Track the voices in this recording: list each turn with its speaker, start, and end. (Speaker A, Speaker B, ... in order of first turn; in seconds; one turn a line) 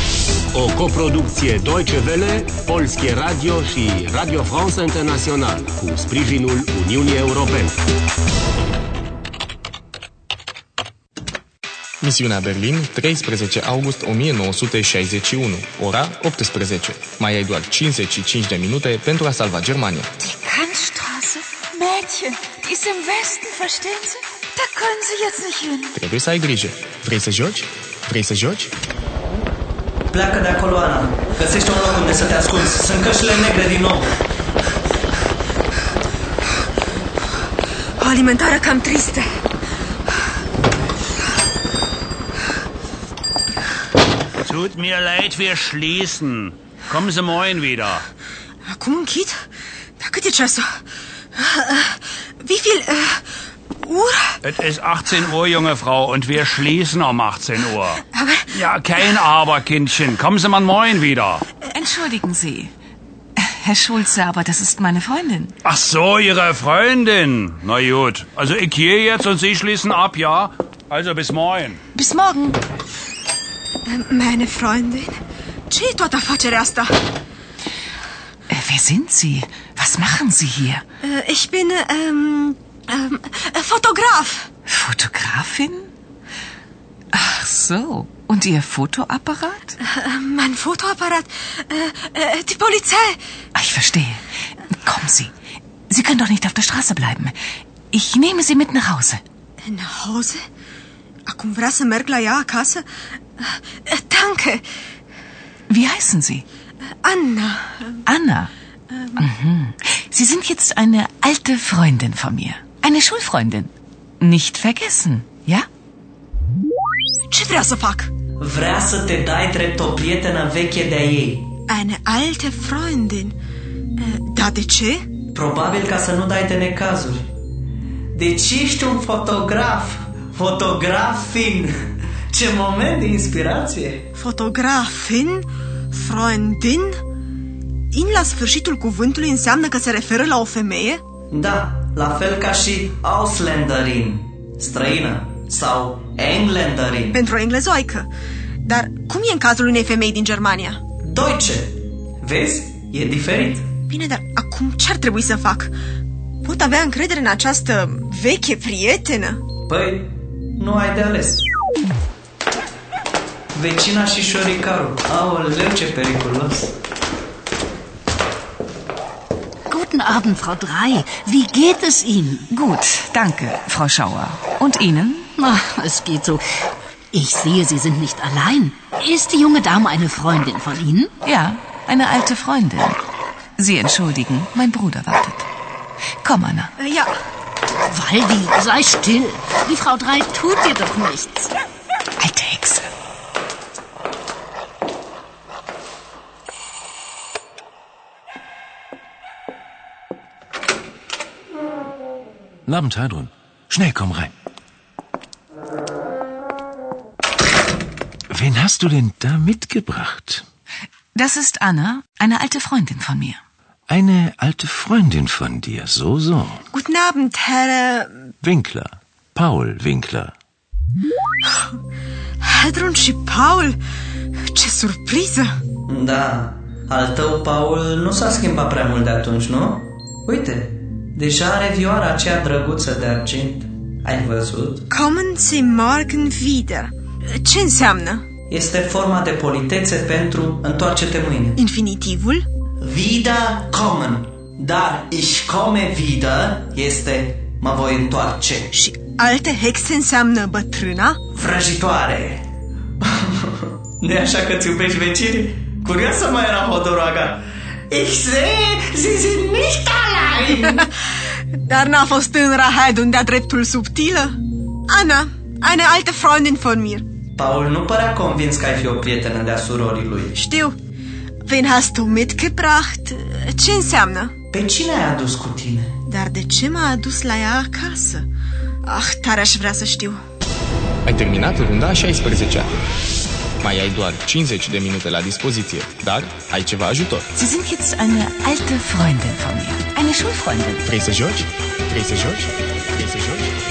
Speaker A: 0.5-7.7
Speaker B: 12.0-20.1
Speaker C: 20.2-21.4
Speaker D: 21.6-24.2
Speaker C: 24.6-25.8
Speaker B: 25.9-28.7
Speaker E: 30.1-34.1
Speaker C: 38.0-39.3
Speaker F: 44.4-48.0
Speaker C: 48.6-49.4
Speaker C: 50.0-50.7
Speaker C: 51.4-53.2
Speaker C: 53.8-54.4
Speaker F: 54.4-61.4
Speaker C: 58.1-58.5
Speaker D: 61.7-62.7
Speaker D: 63.4-65.5
Speaker F: 65.6-71.8
Speaker D: 71.9-72.6
Speaker C: 73.8-75.2
Speaker C: 75.7-77.0
Speaker D: 78.5-80.8
Speaker C: 81.0-84.5
Speaker D: 84.7-85.9
Speaker D: 87.1-89.8
Speaker C: 89.8-93.2
Speaker D: 93.5-95.3
Speaker D: 95.9-97.3
Speaker D: 97.9-99.2
Speaker C: 99.6-100.4
Speaker C: 101.3-102.8
Speaker C: 103.4-104.6
Speaker D: 105.7-106.4
Speaker C: 107.0-108.0
Speaker D: 108.0-108.5
Speaker C: 108.9-109.2
Speaker D: 109.2-115.7
Speaker C: 117.3-118.1
Speaker E: 118.4-121.5
Speaker C: 121.7-123.4
Speaker C: 124.0-125.1
Speaker E: 125.3-127.3
Speaker E: 128.1-131.7
Speaker E: 132.3-134.0
Speaker C: 134.2-137.0
Speaker C: 137.9-141.0
Speaker E: 141.3-147.2
Speaker C: 147.1-148.1
Speaker C: 148.6-150.8
Speaker E: 151.1-153.7
Speaker C: 153.9-155.7
Speaker C: 156.4-159.4
Speaker E: 159.7-161.4
Speaker E: 163.5-166.7
Speaker G: 169.7-172.4
Speaker D: 172.5-175.3
Speaker G: 175.4-176.4
Speaker G: 177.1-181.1
Speaker D: 181.2-183.0
Speaker D: 183.6-185.5
Speaker D: 186.2-186.7
Speaker C: 186.8-187.1
Speaker G: 187.9-191.5
Speaker D: 192.2-192.9
Speaker H: 202.7-204.3
Speaker H: 208.3-210.4
Speaker D: 211.1-213.4
Speaker H: 213.9-216.6
Speaker C: 216.7-218.2
Speaker H: 218.4-220.3
Speaker C: 222.4-223.8
Speaker C: 224.5-225.5
Speaker E: 225.9-234.8
Speaker C: 234.9-238.3
Speaker E: 238.5-241.6
Speaker C: 241.6-242.4
Speaker E: 242.8-248.7
Speaker C: 248.7-251.2
Speaker E: 251.3-252.4
Speaker E: 253.0-260.9
Speaker C: 261.6-264.4
Speaker C: 264.9-267.1
Speaker E: 267.4-270.4
Speaker C: 270.4-270.8
Speaker C: 271.4-274.3
Speaker E: 274.5-276.0
Speaker C: 276.1-278.2
Speaker C: 278.9-280.2
Speaker B: 281.1-282.7
Speaker B: 283.6-287.3
Speaker D: 287.3-290.8
Speaker B: 290.8-293.5